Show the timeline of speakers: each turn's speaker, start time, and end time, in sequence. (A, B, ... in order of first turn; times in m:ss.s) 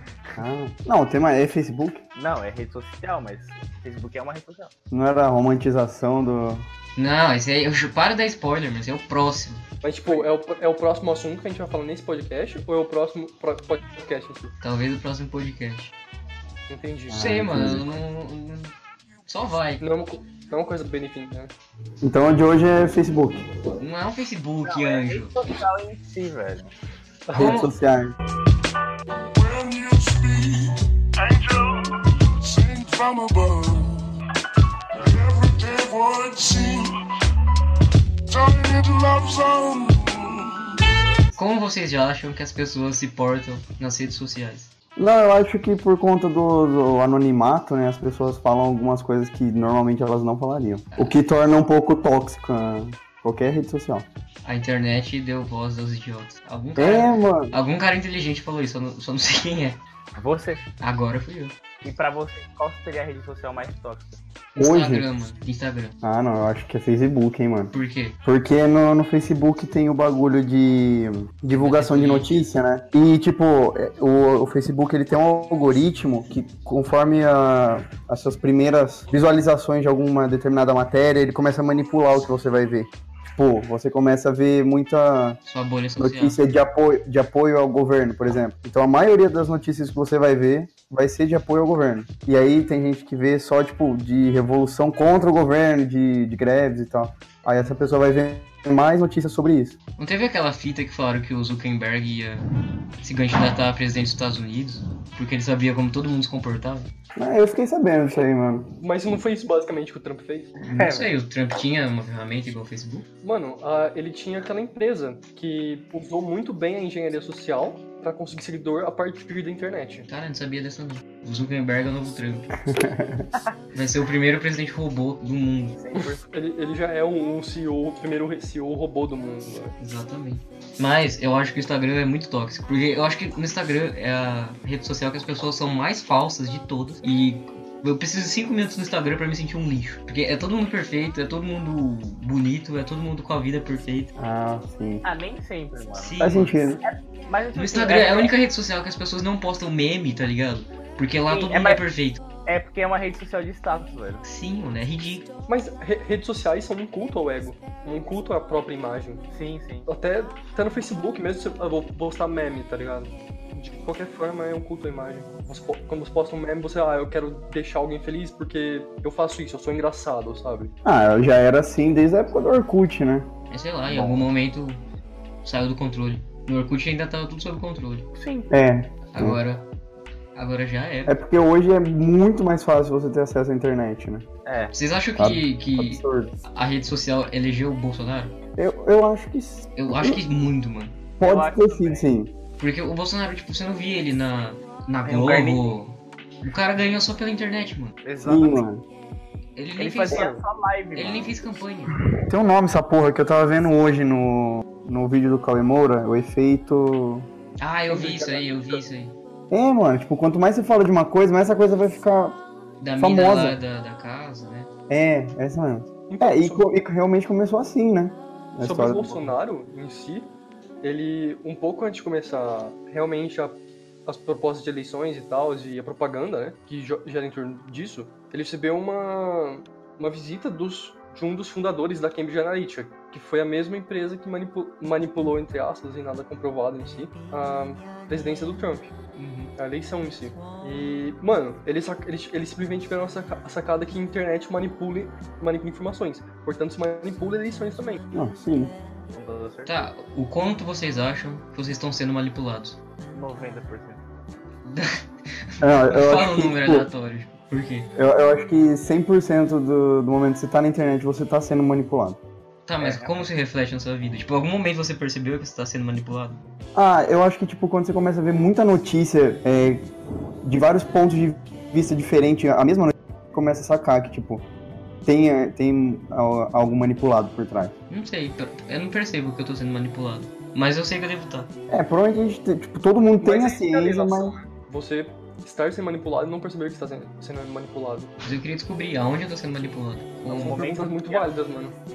0:00.4-0:02.0 A
0:02.2-0:04.7 B
0:04.9-0:06.6 A
0:07.0-0:09.6 C
0:09.8-0:14.5 D
0:14.6-0:15.9 C
0:16.7-0:17.4 D
0:17.1-0:17.8 A
0:17.1-0:18.7 C
0:19.3-0:19.8 C
0:19.8-0:21.5 D
0:22.0-0:23.4 A
0:23.7-0:25.3 C
0:24.6-0:26.7 B
0:27.3-0:27.6 D
0:27.3-0:27.7 C
0:27.3-0:28.1 A
0:29.3-0:34.0 E
0:35.0-0:36.9 E
0:38.3-0:40.9 E
0:41.3-0:44.7 C
0:45.0-0:54.1 A
0:54.4-0:59.8 C
0:56.8-0:57.6 A
1:00.2-1:00.7 B
1:00.8-1:01.5 C
1:01.8-1:04.2 B
1:04.6-1:05.9 C
1:04.6-1:05.0 A
1:06.0-1:07.7 A
1:07.7-1:08.2 C
1:08.2-1:25.4 A
1:11.6-1:12.4 C
1:25.4-1:26.4 C
1:26.0-1:39.8 A
1:40.0-1:42.4 C
1:43.0-1:46.9 C
1:47.2-1:48.7 A
1:48.8-1:50.5 D
1:50.6-1:53.0 C
1:50.7-1:51.1 B
1:53.2-2:00.1 D
2:00.0-2:02.5 C
2:02.7-2:03.3 A
2:03.7-2:05.8 C
2:05.7-2:06.3 B
2:05.9-2:09.7 D
2:09.8-2:24.1 C
2:24.2-2:25.0 A
2:25.0-2:28.3 B
2:25.9-2:26.6 C
2:26.2-2:26.8 A
2:27.5-2:32.2 C
2:31.3-2:31.8 B
2:32.4-2:34.2 B
2:34.2-2:35.3 C
2:35.5-2:39.2 D
2:39.3-2:39.9 B
2:39.8-2:50.7 D
2:50.8-2:53.3 A
2:53.5-2:54.8 C
2:53.9-2:54.2 A
2:55.4-2:58.0 C
2:58.1-2:58.5 B
2:58.5-2:59.4 A
2:59.1-2:59.7 C
3:00.3-3:01.1 C
3:01.0-3:04.2 A
3:04.4-3:04.7 B
3:04.7-3:08.3 C
3:05.2-3:06.4 A
3:08.6-3:10.2 A
3:09.8-3:11.0 C
3:11.2-3:12.3 A
3:11.2-3:12.1 B
3:12.6-3:18.0 C
3:15.0-3:15.8 B
3:18.0-3:18.7 B
3:18.2-3:18.8 A
3:19.6-3:20.3 C
3:19.8-3:21.6 B
3:21.0-3:22.0 C
3:22.1-3:27.3 A
3:27.6-3:29.2 C
3:27.9-3:28.2 A
3:28.0-3:28.7 B
3:29.5-3:32.4 A
3:32.8-3:34.7 C
3:33.0-3:33.6 A
3:34.9-3:39.3 A
3:36.1-3:36.7 D
3:38.6-3:40.3 D
3:40.8-3:58.9 D
3:59.6-4:08.0 D
4:08.1-4:08.7 A
4:09.1-4:09.9 B
4:09.7-4:12.8 C
4:13.1-4:14.0 B
4:14.6-4:17.9 C
4:15.6-4:16.9 A
4:18.0-4:22.2 A
4:22.6-4:26.4 C
4:22.8-4:23.3 B
4:26.7-4:29.9 A
4:30.4-4:34.4 A
4:35.0-4:37.7 A
4:37.9-4:41.5 C
4:41.7-4:44.3 A
4:43.2-4:48.1 D
4:48.2-4:50.6 C
4:50.2-4:51.3 B
4:50.3-4:51.8 D